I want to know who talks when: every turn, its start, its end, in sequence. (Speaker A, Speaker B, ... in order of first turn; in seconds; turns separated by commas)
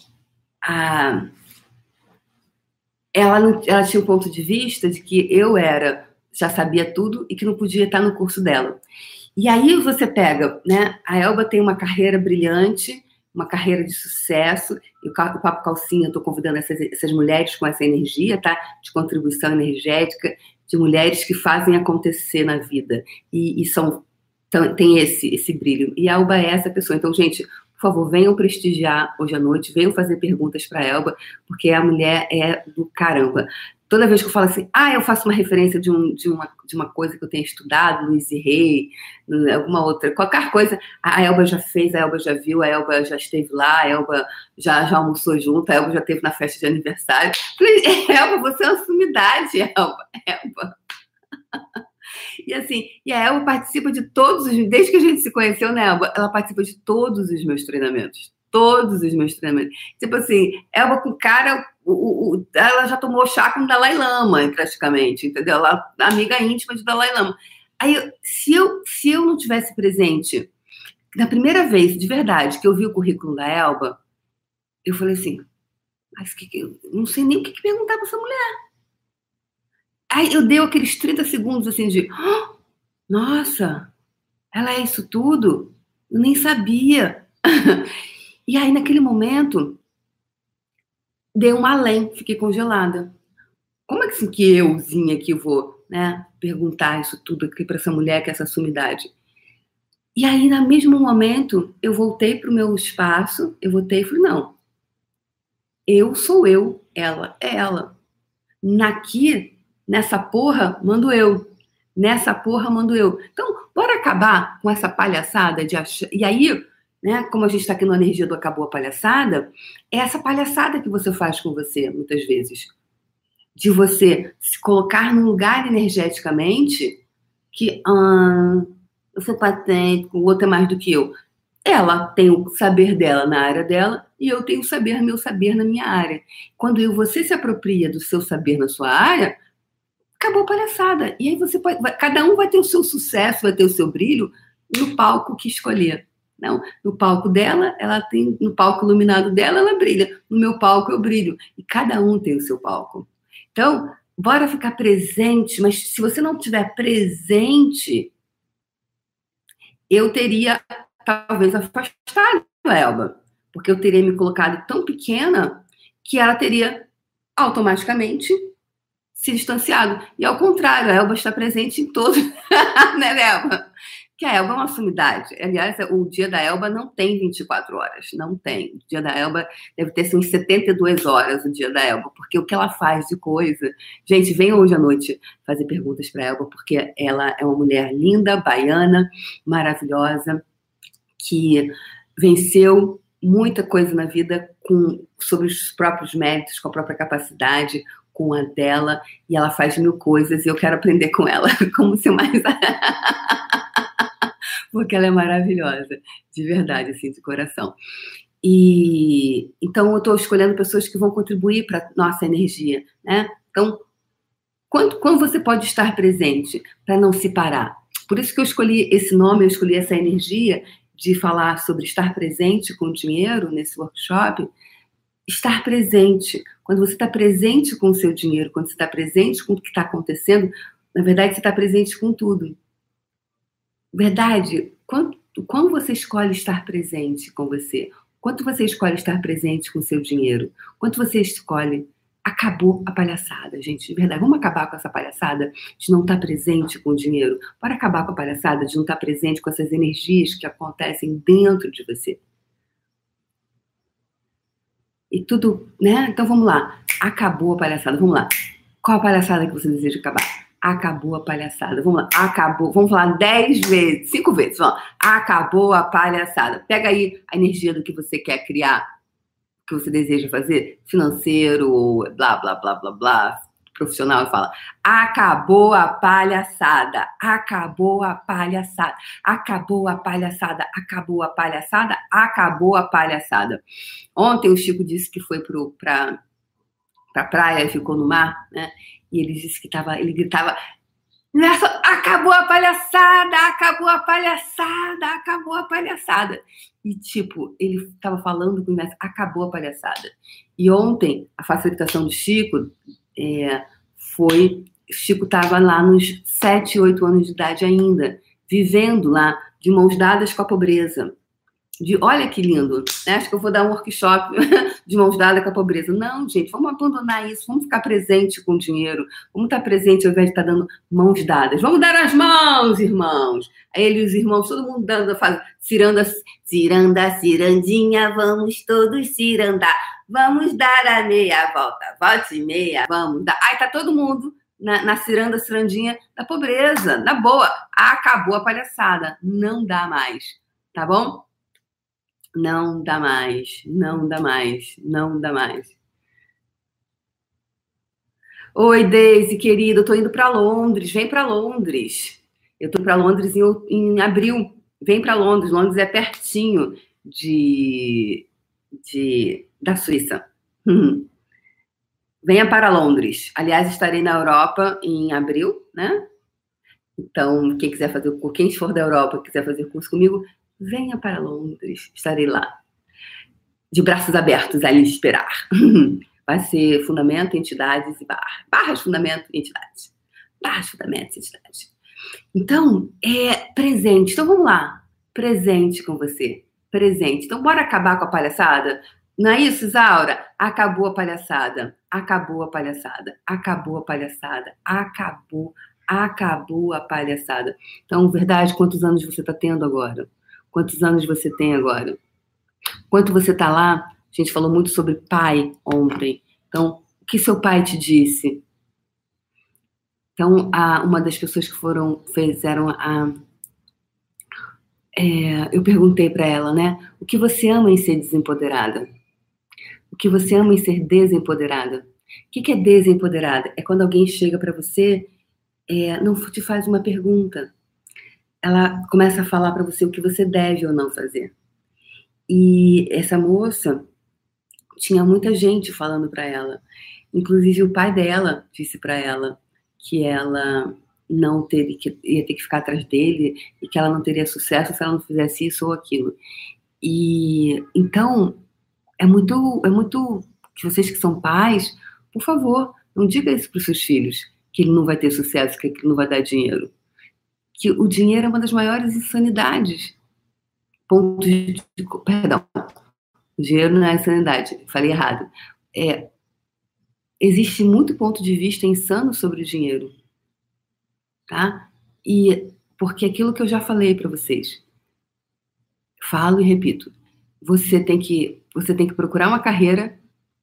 Speaker A: 0.6-1.3, Speaker A: 3.1-8.8, Speaker A: 9.4-50.7, Speaker A: 52.4-70.5, Speaker A: 71.1-74.0, Speaker A: 74.8-75.5, Speaker A: 76.2-78.5, Speaker A: 80.1-82.5, Speaker A: 83.1-83.9, Speaker A: 84.5-87.9, Speaker A: 88.5-89.8, Speaker A: 91.3-93.1, Speaker A: 93.9-99.1, Speaker A: 100.2-104.5, Speaker A: 105.9-107.9, Speaker A: 108.6-122.7, Speaker A: 123.5-127.0, Speaker A: 127.5-139.3, Speaker A: 140.2-158.1, Speaker A: 159.9-168.3, Speaker A: 169.1-173.6, Speaker A: 174.2-190.4, Speaker A: 191.2-203.6, Speaker A: 204.7-207.8, Speaker A: 208.4-213.8, Speaker A: 214.7-224.5, Speaker A: 225.3-232.6, Speaker A: 233.9-252.2, Speaker A: 255.1-258.3, Speaker A: 258.8-268.8, Speaker A: 269.6-283.6, Speaker A: 284.1-286.2, Speaker A: 287.1-290.6, Speaker A: 291.3-311.1, Speaker A: 311.8-341.3, Speaker A: 342.3-345.8, Speaker A: 348.5-358.2, Speaker A: 358.8-361.1, Speaker A: 362.2-366.0, Speaker A: 367.0-372.5, Speaker A: 373.7-381.7, Speaker A: 382.3-402.0, Speaker A: 402.9-408.4, Speaker A: 410.1-413.2, Speaker A: 415.0-418.9, Speaker A: 419.9-425.1, Speaker A: 425.7-427.5, Speaker A: 428.4-431.3, Speaker A: 432.3-433.9, Speaker A: 434.8-436.6, Speaker A: 437.1-446.2, Speaker A: 446.8-448.4, Speaker A: 449.0-456.7, Speaker A: 457.6-460.0, Speaker A: 460.9-462.7, Speaker A: 463.4-466.1, Speaker A: 467.2-469.9, Speaker A: 471.3-474.6, Speaker A: 476.0-479.9